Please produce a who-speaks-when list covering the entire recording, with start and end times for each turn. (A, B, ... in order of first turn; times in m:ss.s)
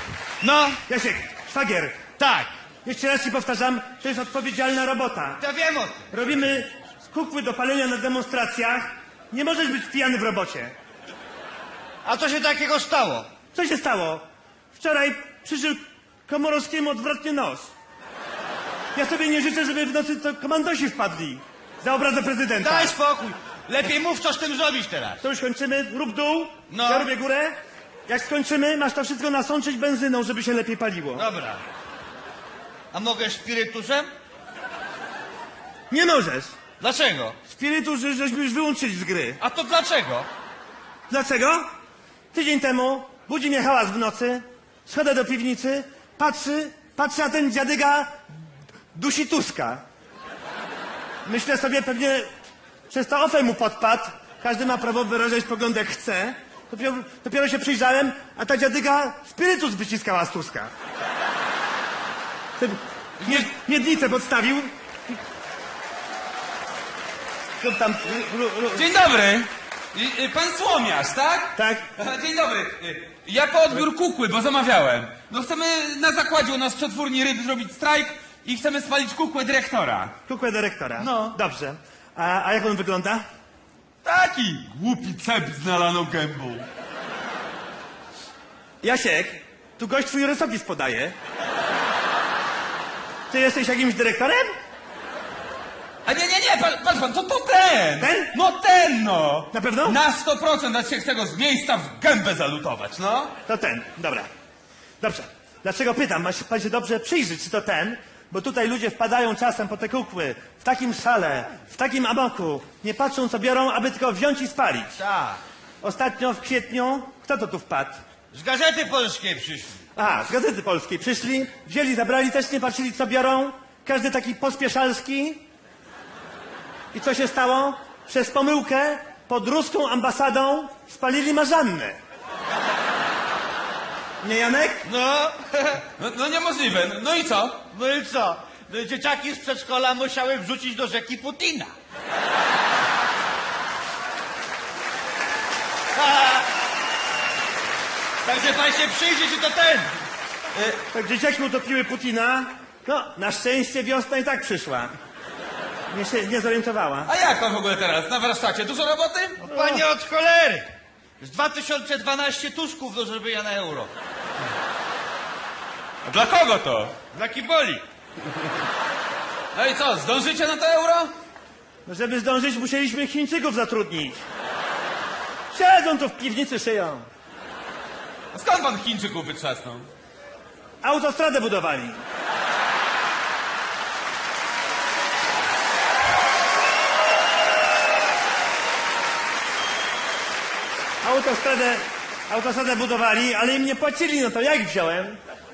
0:00.4-0:00.8 A
0:00.8-0:02.0 B
0:02.2-0:02.5 A
0:02.8-0:05.4 B
0:05.4-0:06.1 A
0:06.1-0:10.7 B
0:12.0-0:13.3 A
0:13.5-0:17.7 B
0:18.9-0:22.9 B
0:22.6-0:25.2 A
0:25.2-0:27.6 B
0:26.7-0:27.1 A
0:28.1-0:31.2 B
0:31.1-0:31.6 A
0:32.9-0:34.1 A
0:35.9-0:36.5 B
0:36.8-0:37.4 A
0:37.5-0:39.4 B
0:39.4-0:40.3 A
0:41.1-0:41.6 B
0:42.3-0:48.2 B
0:48.9-0:49.8 B
0:51.2-0:52.3 B
0:52.9-1:00.7 B
1:02.6-1:05.2 B
1:07.6-1:08.9 B
1:08.7-1:20.1 C
1:11.6-1:11.9 B
1:20.3-1:23.2 B
1:21.0-1:21.4 C
1:24.0-1:26.6 C
1:28.8-1:31.2 B
1:33.3-1:34.5 B
1:36.0-1:43.3 C
1:38.0-1:38.3 B
1:39.5-1:40.0 B
1:43.4-1:44.3 B
1:45.0-1:55.0 B
1:55.0-1:55.4 A
1:55.8-1:58.0 B
1:58.3-1:59.8 A
1:59.9-2:05.4 B
2:06.9-2:12.0 B
2:14.2-2:14.8 B
2:14.8-2:15.8 A
2:16.0-2:17.6 C
2:17.7-2:21.7 A
2:25.9-2:26.5 A
2:28.2-2:29.9 A
2:30.9-2:34.9 B
2:35.9-2:37.1 B
2:37.0-2:39.4 C
2:39.4-2:40.7 A
2:39.5-2:39.8 B
2:41.2-2:43.9 A
2:46.0-2:46.9 C
2:47.1-2:47.8 A
2:49.5-2:51.1 C
2:51.8-2:54.2 B
2:55.5-2:57.1 B
2:58.3-2:59.9 C
3:00.8-3:02.0 B
3:11.0-3:15.2 B